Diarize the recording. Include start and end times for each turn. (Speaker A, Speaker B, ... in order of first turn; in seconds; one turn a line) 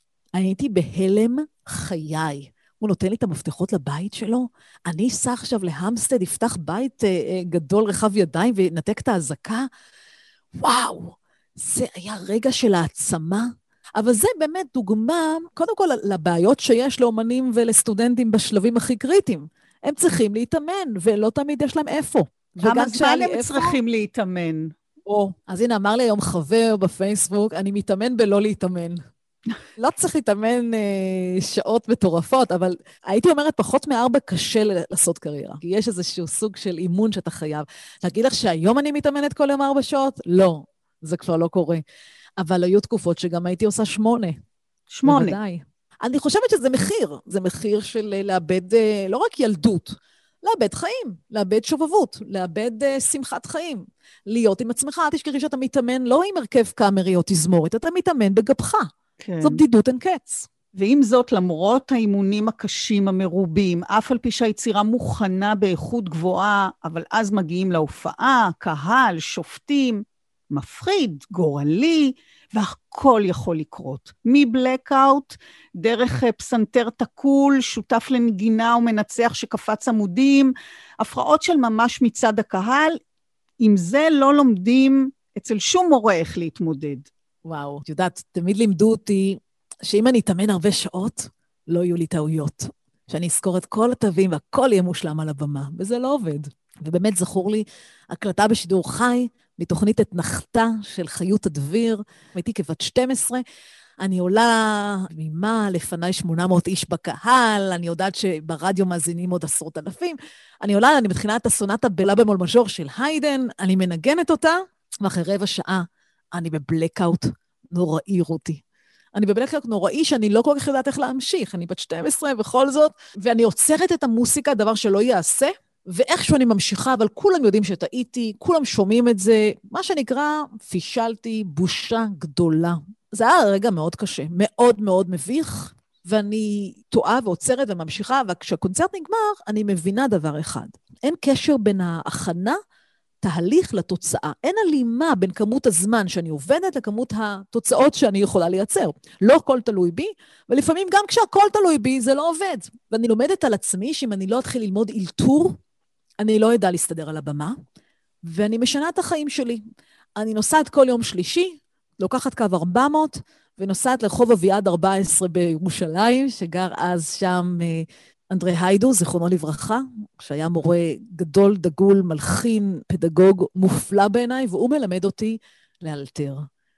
Speaker A: 0.3-9.7
Speaker A: 10.6-23.8
Speaker B: 22.6-24.7
Speaker A: 25.1-29.0
Speaker A: 29.8-41.8
Speaker A: 42.4-44.4
Speaker B: 44.9-45.4
Speaker A: 45.0-58.9
Speaker B: 59.2-59.6
Speaker A: 59.4-60.5
Speaker B: 60.8-83.0
Speaker B: 83.6-87.1
Speaker A: 87.5-103.4
Speaker A: 104.0-118.6
Speaker A: 119.1-142.6
Speaker A: 143.2-155.6
Speaker A: 156.2-157.6
Speaker A: 158.2-159.6
Speaker A: 160.2-176.5